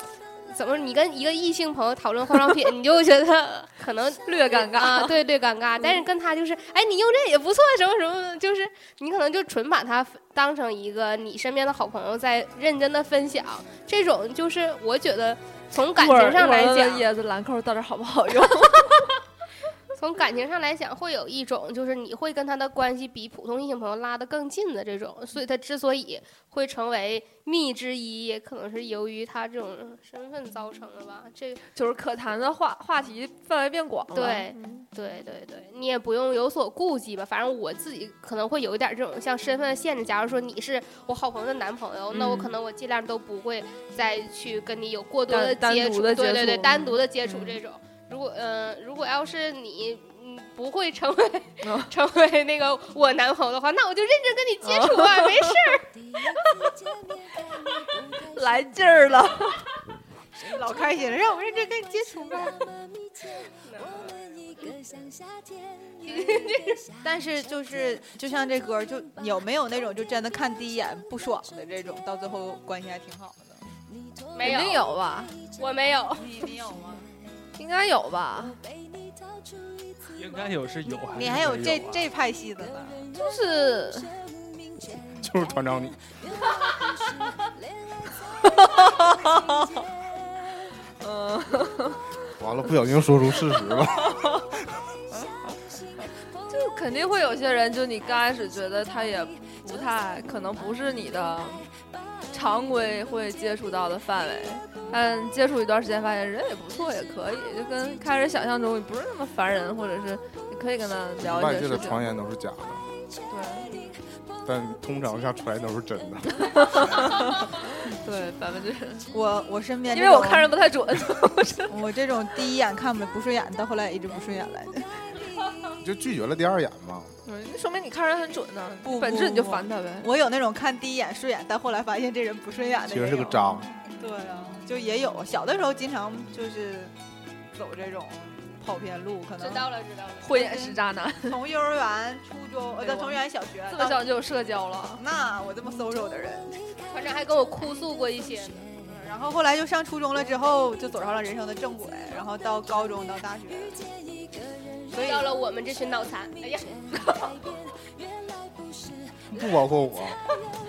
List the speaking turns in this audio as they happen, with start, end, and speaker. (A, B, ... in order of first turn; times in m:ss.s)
0:00.4-0:17.0 A
0:04.2-0:05.1 B
0:15.9-0:19.0 B
0:19.9-0:31.6 A
0:31.7-0:34.9 B
0:34.1-0:55.8 A
0:42.1-0:42.5 B
0:45.3-0:47.6 B
0:51.6-0:51.9 B
0:54.6-0:55.7 B
0:58.3-0:59.6 B
1:00.5-1:02.6 C
1:03.6-1:04.7 A
1:06.0-1:06.8 A
1:07.0-1:13.6 C
1:14.3-1:14.8 A
1:14.4-1:15.3 B
1:15.6-1:16.3 A
1:16.2-1:17.1 C
1:17.6-1:18.6 B
1:20.1-1:22.1 D
1:21.1-1:23.0 C
1:23.1-1:24.1 B
1:25.2-1:26.0 E
1:28.4-1:29.4 B
1:31.0-1:32.0 B
1:32.4-1:34.0 E
1:36.5-1:41.7 B
1:42.3-1:52.0 B
1:51.2-1:52.8 E
1:53.3-1:53.9 B
1:54.4-1:56.9 E
1:56.6-1:59.1 B
1:59.1-2:00.5 C
1:59.9-2:01.7 B
2:01.7-2:05.0 C
2:05.8-2:07.1 E
2:07.2-2:10.1 B
2:08.8-2:16.9 C
2:12.9-2:13.7 E
2:17.5-2:19.7 C
2:19.4-2:20.3 A
2:20.2-2:21.4 B
2:20.3-2:24.1 C
2:22.8-2:25.0 B
2:25.0-2:26.6 C
2:26.9-2:28.7 A
2:28.8-2:33.8 C
2:34.9-2:35.3 C
2:34.9-2:36.7 A
2:39.3-2:40.2 E